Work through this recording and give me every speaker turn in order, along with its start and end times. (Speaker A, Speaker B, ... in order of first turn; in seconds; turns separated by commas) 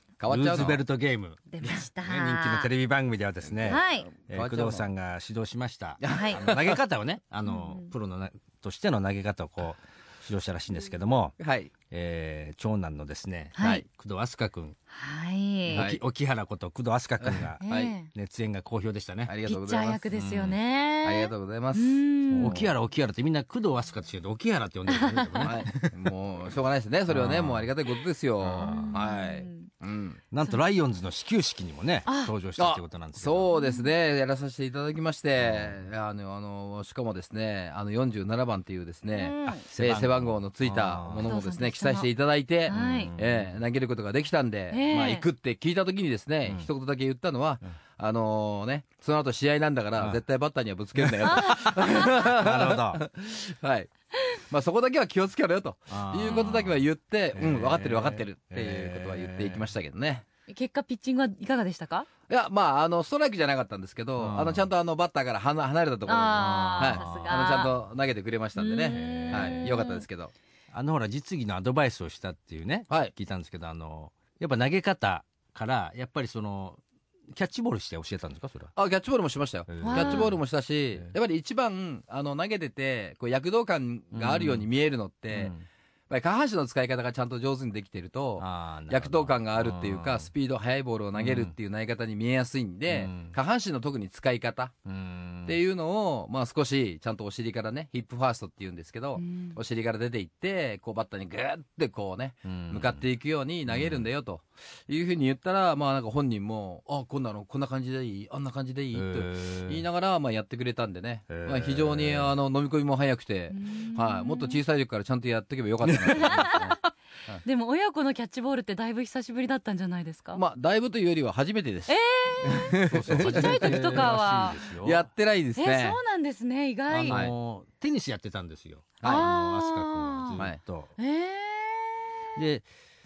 Speaker A: 0.2-0.8, Speaker B: 0.3-11.3, Speaker C: 1.5-2.7, Speaker A: 3.6-4.9, Speaker C: 3.7-4.1, Speaker A: 6.0-6.8, Speaker C: 6.1-6.4, Speaker C: 7.5-7.9, Speaker A: 11.4-11.7, Speaker B: 11.9-14.8, Speaker C: 13.6-13.8, Speaker A: 13.6-13.8, Speaker C: 14.9-15.9, Speaker B: 15.7-19.3, Speaker A: 15.7-16.0, Speaker A: 17.2-17.9, Speaker C: 17.6-18.1, Speaker A: 19.3-20.0, Speaker C: 19.5-22.6, Speaker B: 20.1-20.6, Speaker A: 21.0-22.7, Speaker B: 22.4-26.1, Speaker C: 24.9-25.5, Speaker A: 25.4-30.2, Speaker B: 27.1-27.7, Speaker B: 28.4-29.0, Speaker C: 28.6-29.7, Speaker B: 30.3-33.5, Speaker C: 32.1-32.3, Speaker A: 32.6-60.2, Speaker C: 33.5-33.9, Speaker B: 35.4-35.8, Speaker C: 39.1-39.7, Speaker B: 39.6-41.3, Speaker C: 41.2-42.1, Speaker C: 42.6-43.1, Speaker B: 42.7-43.5, Speaker C: 44.7-45.2, Speaker B: 51.0-53.0, Speaker C: 51.3-51.6, Speaker B: 55.9-56.8, Speaker B: 57.4-59.6, Speaker C: 60.5-62.1, Speaker A: 62.3-70.3, Speaker B: 64.2-64.7, Speaker C: 66.1-67.7, Speaker B: 66.4-67.4, Speaker C: 68.6-70.0, Speaker B: 68.9-69.8, Speaker B: 70.7-78.7, Speaker A: 78.8-85.5, Speaker B: 79.7-80.4, Speaker C: 79.8-80.3, Speaker B: 84.1-84.7, Speaker B: 85.3-85.7, Speaker A: 86.1-94.7, Speaker B: 88.4-90.3, Speaker B: 91.2-91.5, Speaker B: 92.9-93.4, Speaker B: 94.9-95.6, Speaker A: 95.5-117.4, Speaker C: 99.2-99.6, Speaker B: 102.5-103.0, Speaker B: 103.7-104.1, Speaker B: 108.9-109.8, Speaker B: 111.3-112.3, Speaker C: 113.5-114.6, Speaker B: 115.8-116.4, Speaker C: 116.2-116.8, Speaker C: 117.5-120.4, Speaker A: 120.3-126.0, Speaker C: 121.9-124.6, Speaker B: 122.9-125.0, Speaker C: 125.6-127.2, Speaker B: 126.9-130.9, Speaker C: 129.0-130.4, Speaker C: 131.0-132.1, Speaker B: 132.4-132.7